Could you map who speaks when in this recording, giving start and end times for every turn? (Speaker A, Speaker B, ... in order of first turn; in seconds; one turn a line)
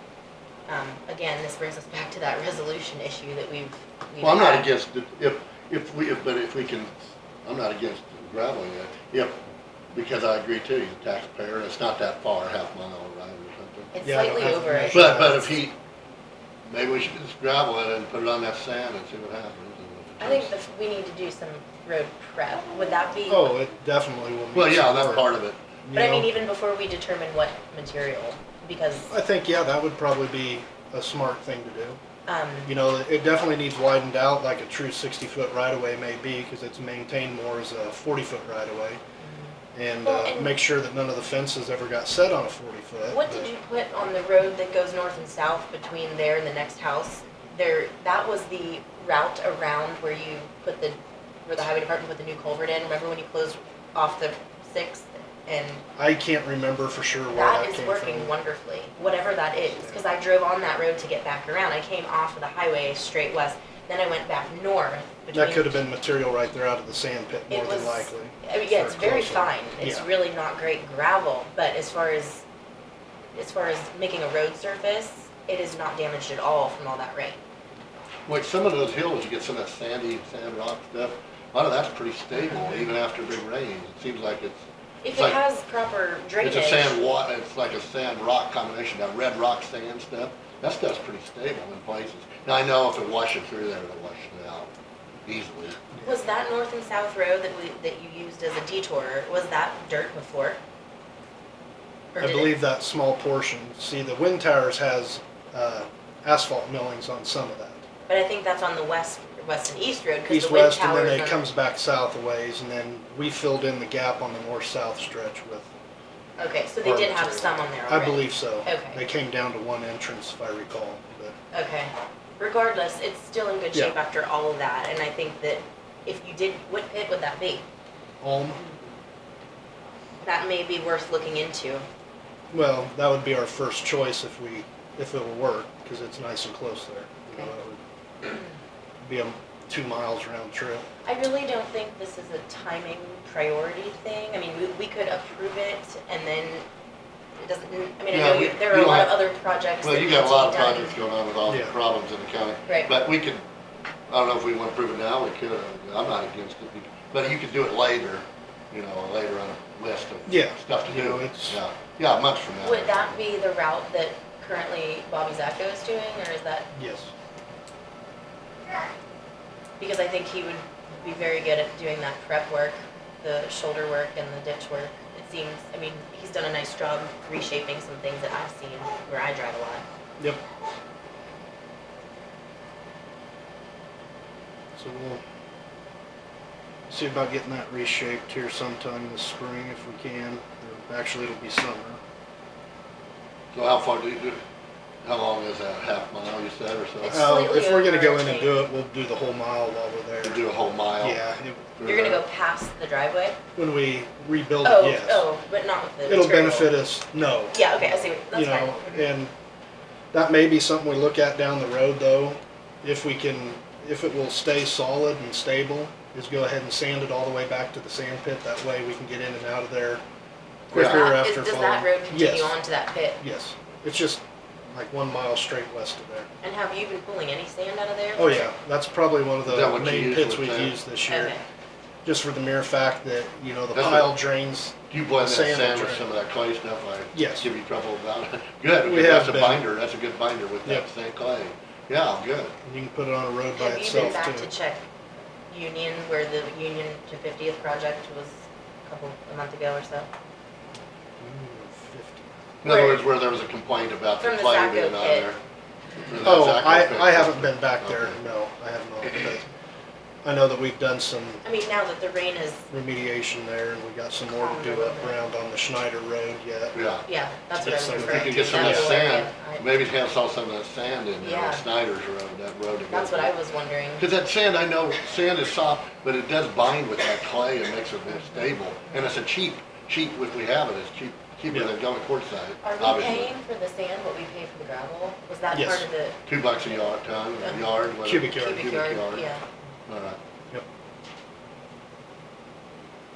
Speaker A: 0.7-4.7
Speaker B: 4.2-9.4
Speaker B: 9.9-13.9
Speaker A: 13.9-15.5
Speaker C: 14.0-15.5
Speaker B: 14.9-15.8
Speaker B: 16.6-20.5
Speaker A: 20.2-23.5
Speaker C: 23.3-25.2
Speaker B: 24.5-25.6
Speaker C: 25.8-26.3
Speaker A: 25.9-29.1
Speaker C: 29.1-32.0
Speaker A: 32.2-32.7
Speaker C: 32.6-39.0
Speaker A: 39.2-39.5
Speaker C: 39.7-43.5
Speaker A: 40.0-40.5
Speaker A: 43.1-55.8
Speaker C: 56.0-58.3
Speaker A: 57.3-65.8
Speaker C: 65.3-70.1
Speaker A: 67.5-72.4
Speaker A: 73.3-77.4
Speaker B: 78.3-85.4
Speaker A: 82.3-82.9
Speaker A: 85.0-87.0
Speaker B: 86.4-94.7
Speaker B: 95.2-95.8
Speaker A: 96.0-100.6
Speaker A: 102.1-102.5
Speaker C: 102.2-107.9
Speaker A: 108.1-111.5
Speaker C: 110.3-115.7
Speaker A: 116.4-119.0
Speaker C: 116.8-121.3
Speaker A: 121.5-127.6
Speaker C: 128.2-128.6
Speaker A: 130.2-131.8
Speaker C: 132.5-137.8
Speaker C: 139.0-140.9
Speaker A: 141.0-146.6
Speaker A: 147.4-150.9
Speaker B: 148.1-149.2
Speaker B: 149.8-153.4
Speaker C: 151.4-151.7
Speaker A: 152.7-152.9
Speaker B: 154.1-163.2
Speaker C: 160.3-161.6
Speaker A: 162.6-166.7
Speaker C: 166.7-167.1
Speaker A: 169.8-179.8
Speaker C: 184.8-185.2
Speaker C: 186.9-192.0
Speaker B: 193.5-194.4
Speaker B: 195.0-197.2
Speaker A: 197.0-198.6
Speaker C: 197.0-200.4
Speaker B: 200.2-201.2
Speaker C: 201.0-202.0
Speaker B: 201.8-202.2
Speaker A: 201.8-203.4
Speaker C: 203.6-205.3
Speaker A: 204.6-206.8
Speaker C: 206.1-209.3
Speaker A: 207.5-209.0
Speaker C: 210.1-220.0
Speaker C: 220.7-222.5
Speaker B: 220.7-221.1
Speaker A: 220.7-223.2
Speaker C: 223.2-226.3
Speaker A: 226.4-228.4
Speaker C: 228.2-231.3
Speaker B: 229.4-230.8
Speaker A: 231.1-231.4
Speaker C: 232.0-236.0
Speaker B: 233.7-234.2
Speaker B: 234.9-242.5
Speaker C: 237.1-237.5
Speaker C: 238.8-239.7
Speaker C: 242.6-244.5
Speaker A: 243.6-244.8
Speaker A: 245.5-250.1
Speaker C: 251.2-252.4
Speaker B: 252.6-255.4
Speaker A: 252.6-253.1
Speaker A: 254.2-255.3
Speaker B: 256.1-258.2
Speaker C: 256.2-259.4
Speaker C: 260.2-261.4
Speaker A: 261.4-262.6
Speaker C: 262.7-266.7
Speaker A: 264.3-265.2
Speaker B: 266.7-267.1
Speaker A: 267.1-269.7
Speaker C: 267.6-269.0
Speaker B: 268.0-273.3
Speaker A: 271.2-271.6
Speaker A: 272.9-274.0
Speaker B: 274.0-283.3
Speaker A: 278.1-278.5
Speaker A: 282.6-286.2
Speaker C: 285.5-285.9
Speaker B: 286.3-289.3
Speaker C: 288.0-288.7
Speaker A: 288.3-289.4
Speaker B: 289.9-290.2